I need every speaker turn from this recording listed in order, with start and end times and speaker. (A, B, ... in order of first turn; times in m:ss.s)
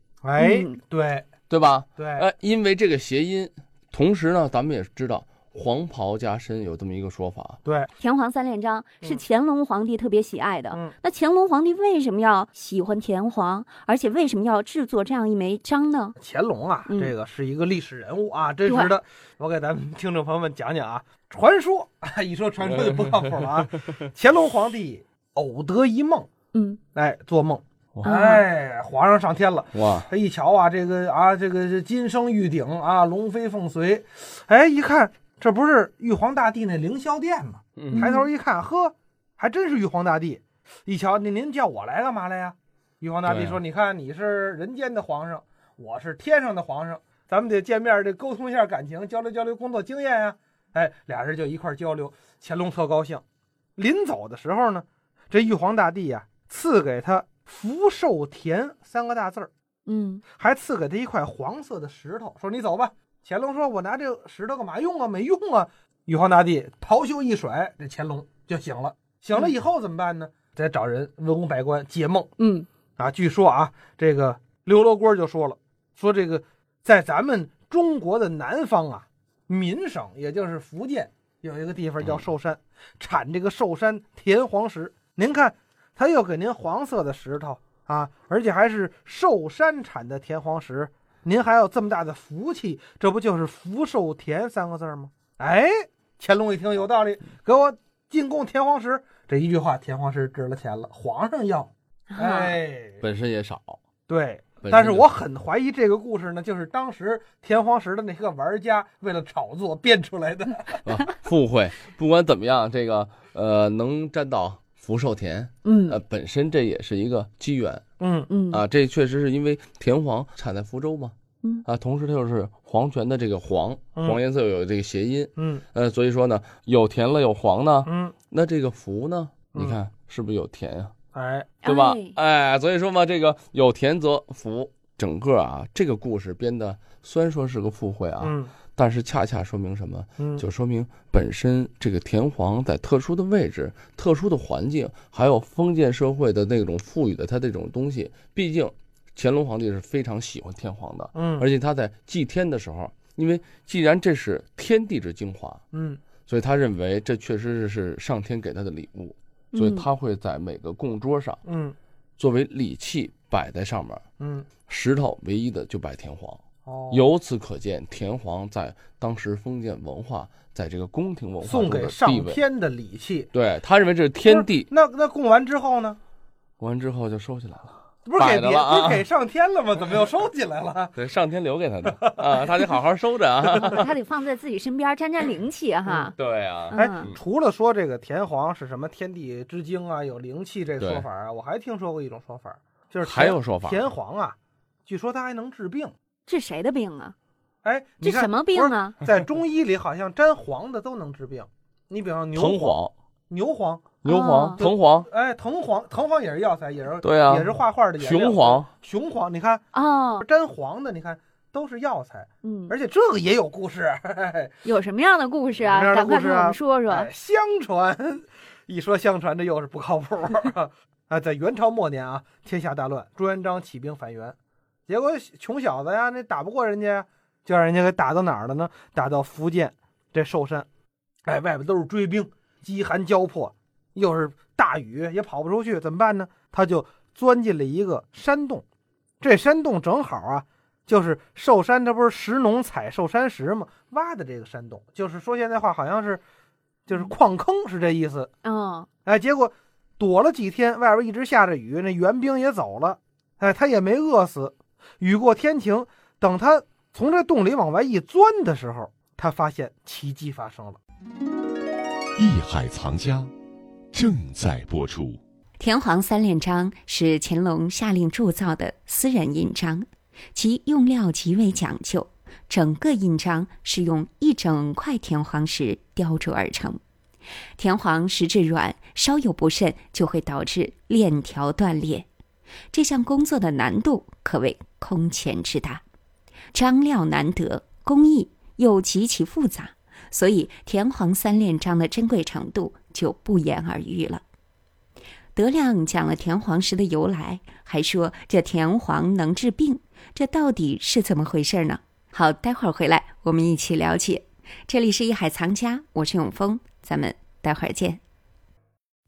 0:00.2-0:01.3 A
0:00.4-0:00.8 B
0:01.5-0:07.6 C
0:02.0-0:02.3 A
0:07.6-0:07.9 A
0:08.0-0:16.2 B
0:16.2-0:26.3 A
0:16.9-0:17.1 B
0:18.6-0:18.9 B
0:26.5-0:26.8 B
0:26.9-0:53.2 A
0:28.0-0:28.4 B
0:37.9-0:38.3 B
0:43.3-0:43.6 C
0:53.8-0:59.5 A
0:59.8-1:00.2 B
1:00.3-1:12.3 A
1:12.4-1:12.7 B
1:13.0-1:43.0 A
1:42.1-1:42.6 B
1:43.0-1:43.8 C
1:44.1-1:50.8 A
1:44.7-1:45.0 C
1:50.8-1:57.8 C
1:55.6-1:56.0 B
1:58.0-1:58.3 A
1:58.3-1:58.6 B
1:58.5-2:10.9 C
2:05.4-2:05.6 A
2:07.8-2:08.1 A
2:09.5-2:09.8 A
2:11.1-2:11.5 A
2:11.6-2:12.1 B
2:11.6-2:35.6 C
2:18.2-2:18.5 A
2:20.2-2:20.4 A
2:31.1-2:31.5 A
2:35.7-2:36.0 A
2:36.3-2:41.4 C
2:39.5-2:39.8 B
2:41.4-2:41.8 A
2:42.2-2:44.0 C
2:44.2-2:44.5 A
2:44.7-2:46.4 C
2:46.6-2:47.1 A
2:46.9-2:52.3 C
2:51.4-2:53.3 A
2:53.4-2:54.6 C
2:54.2-2:56.0 A
2:56.6-2:59.0 C
2:58.0-3:01.0 A
3:01.0-3:03.9 C
3:03.5-3:06.1 B
3:05.9-3:06.1 A
3:06.2-3:07.0 C
3:06.7-3:14.4 A
3:06.7-3:07.1 B
3:13.0-3:13.7 C
3:14.9-3:15.9 A
3:16.3-3:17.1 B
3:17.6-3:22.8 A
3:18.0-3:19.0 B
3:22.3-3:22.9 C
3:23.3-3:24.0 A
3:24.0-3:25.1 C
3:24.0-3:24.6 B
3:24.6-3:29.6 A
3:27.0-3:28.7 C
3:29.7-3:30.2 B
3:30.2-3:34.6 A
3:32.4-3:32.7 B
3:34.6-3:37.1 B
3:35.6-3:44.4 A
3:44.9-3:50.7 A
3:51.2-3:58.6 A
3:59.2-4:06.2 A
4:06.9-4:08.3 A
4:08.4-4:08.9 B
4:09.0-4:20.8 A
4:22.2-4:23.3 D
4:23.9-4:25.2 D
4:25.6-4:36.8 E
4:37.6-4:42.1 E
4:42.7-4:45.8 E
4:46.5-4:54.2 E
4:55.3-5:08.0 E